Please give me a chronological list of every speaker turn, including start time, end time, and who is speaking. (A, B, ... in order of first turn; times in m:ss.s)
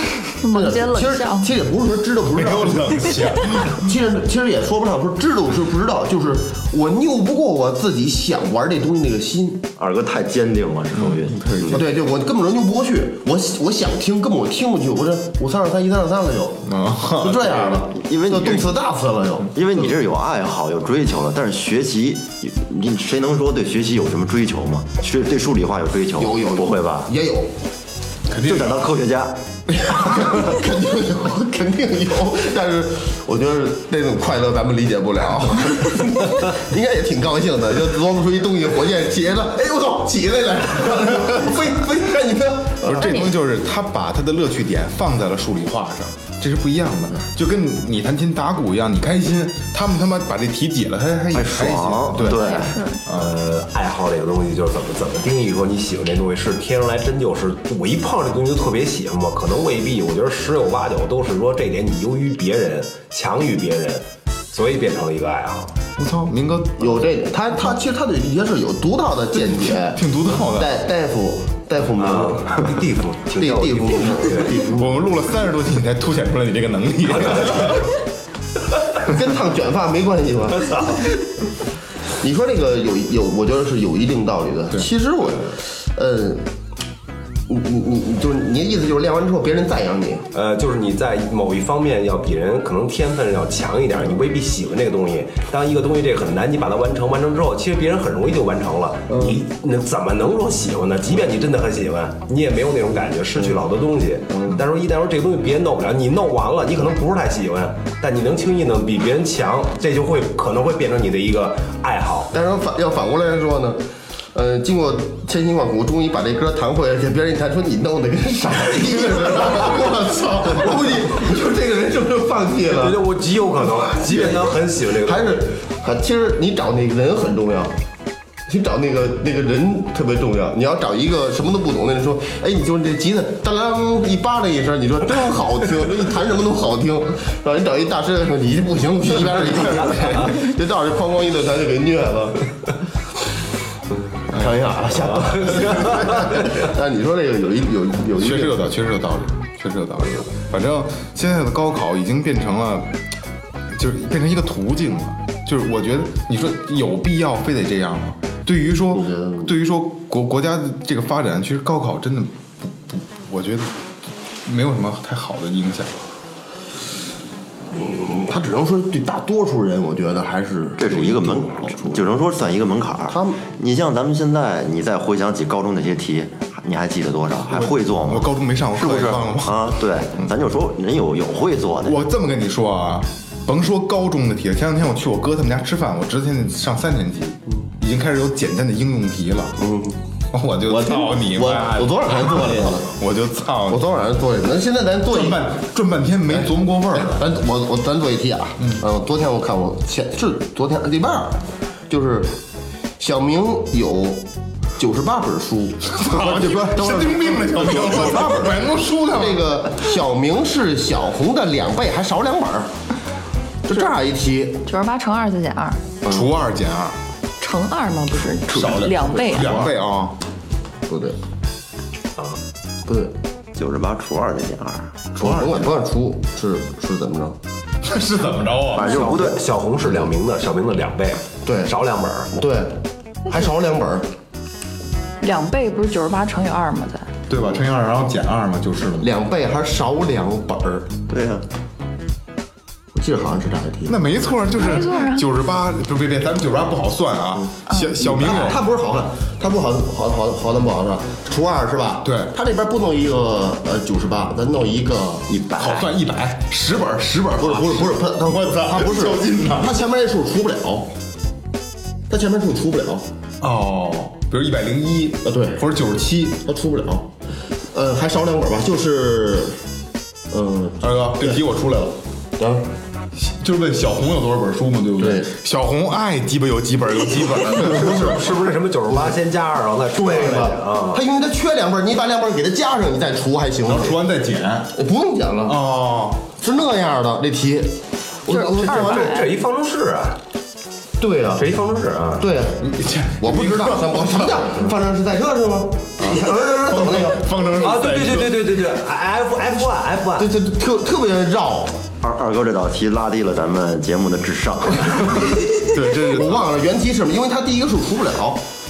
0:00.4-0:01.5 A
0:00.5-0:03.1 B
0:02.3-0:03.9 C
0:03.7-0:09.7 B
0:09.8-0:11.8 D
0:11.0-0:11.9 C
0:11.7-0:19.5 B
0:16.6-0:17.7 C
0:17.8-0:18.7 D
0:19.5-0:27.1 D
0:26.2-0:27.5 B
0:28.3-0:28.8 C
0:28.4-0:29.4 D
0:29.7-0:43.2 B
0:42.8-0:53.3 C
0:43.0-0:43.3 A
0:51.3-0:52.8 D
0:52.2-0:53.0 A
0:53.1-1:05.8 E
1:06.0-1:07.0 C
1:06.8-1:12.8 B
1:09.4-1:10.8 C
1:12.0-1:14.6 E
1:13.4-1:15.1 B
1:14.7-1:18.0 C
1:17.3-1:17.7 E
1:19.0-1:21.1 B
1:22.2-1:26.4 B
1:27.5-1:30.2 B
1:30.3-1:52.3 E
1:39.1-1:39.4 B
1:44.3-1:44.6 B
1:52.3-2:03.0 B
2:02.7-2:05.5 E
2:03.8-2:07.7 B
2:08.5-2:22.5 B
2:24.3-2:24.7 C
2:24.3-2:28.7 B
2:25.4-2:26.0 E
2:28.2-2:33.0 C
2:33.7-2:43.8 C
2:38.9-2:39.5 B
2:44.4-2:46.0 C
2:47.7-2:52.1 B
2:50.8-3:02.0 D
2:53.1-2:53.4 B
2:57.5-3:00.3 C
3:01.8-3:09.6 C
3:09.6-3:10.0 B
3:10.3-3:13.8 C
3:10.6-3:13.0 B
3:13.7-3:15.6 B
3:15.1-3:17.2 C
3:16.3-3:22.4 B
3:18.6-3:18.8 C
3:23.0-3:24.3 B
3:24.8-3:32.7 B
3:25.9-3:29.5 C
3:33.6-3:34.6 B
3:34.6-3:35.8 A
3:36.1-3:37.0 C
3:37.4-3:39.5 A
3:38.5-3:40.2 C
3:39.4-3:39.7 B
3:40.9-3:41.2 B
3:42.9-3:43.1 B
3:43.6-3:45.0 D
3:45.2-3:45.8 C
3:45.2-3:47.4 B
3:47.8-3:49.0 C
3:48.7-3:49.4 D
3:48.8-3:52.4 E
3:49.0-3:50.1 B
3:51.5-3:51.7 B
3:52.3-3:54.1 B
3:55.2-3:57.1 A
3:57.3-3:59.1 C
3:59.0-4:00.9 B
4:01.1-4:01.4 D
4:02.9-4:04.0 B
4:03.9-4:08.6 C
4:04.5-4:05.3 A
4:07.7-4:07.9 A
4:08.0-4:15.3 B
4:12.0-4:12.3 C
4:15.3-4:15.9 D
4:15.6-4:19.8 C
4:17.4-4:20.9 B
4:22.1-4:23.1 B
4:23.4-4:26.4 C
4:25.2-4:25.6 B
4:26.4-4:27.1 B
4:27.7-4:29.6 B
4:30.3-4:31.4 B
4:30.8-4:32.0 C
4:32.4-4:32.7 B
4:33.2-4:38.2 C
4:35.0-4:35.3 B
4:37.6-4:41.0 E
4:37.7-4:38.2 B
4:40.0-4:44.0 B
4:43.6-4:44.7 C
4:44.7-4:45.6 B
4:45.4-4:46.2 C
4:46.3-4:49.2 B
4:48.3-4:49.3 A
4:48.6-4:50.2 E
4:51.0-4:51.5 B
4:51.4-4:52.3 E
4:52.2-4:52.7 B
4:52.6-4:54.6 C
4:53.2-4:57.3 B
4:56.0-4:58.4 C
4:57.6-5:00.3 E
5:00.2-5:01.8 B
5:02.0-5:05.3 D
5:05.4-5:08.4 B
5:05.7-5:06.4 C